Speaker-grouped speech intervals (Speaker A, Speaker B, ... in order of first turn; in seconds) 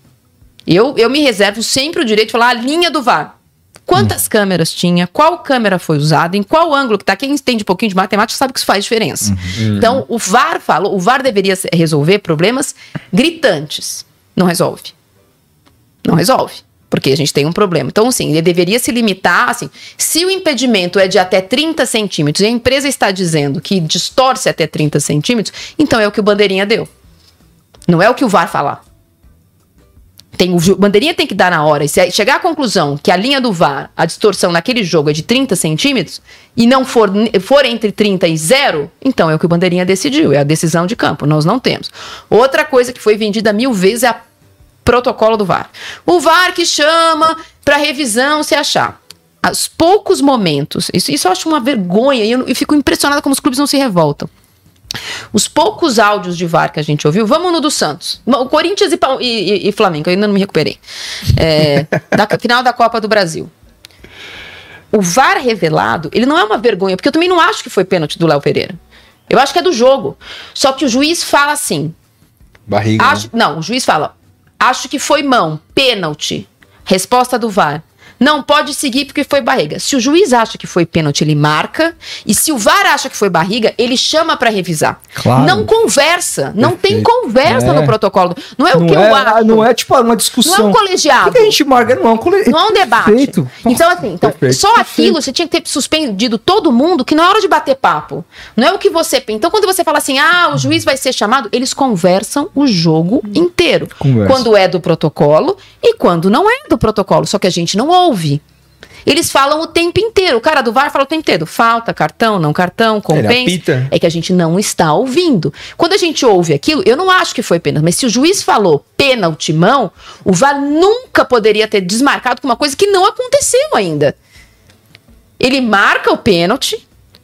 Speaker A: 0.7-3.3, 3.9-14.9, 16.0-26.9, 27.9-28.8, 30.4-44.2, 44.9-54.3, 55.3-60.8, 61.3-63.5, 64.9-68.8, 69.3-71.9, 73.0-89.7, 90.4-91.6, 92.5-108.4, 109.1-124.2, 125.4-126.8
Speaker B: 9.2-9.5, 85.2-85.7, 87.5-88.0, 88.7-94.0, 104.0-104.5
Speaker C: 9.6-10.0, 72.7-73.3, 86.6-87.1, 94.2-95.0, 113.1-113.9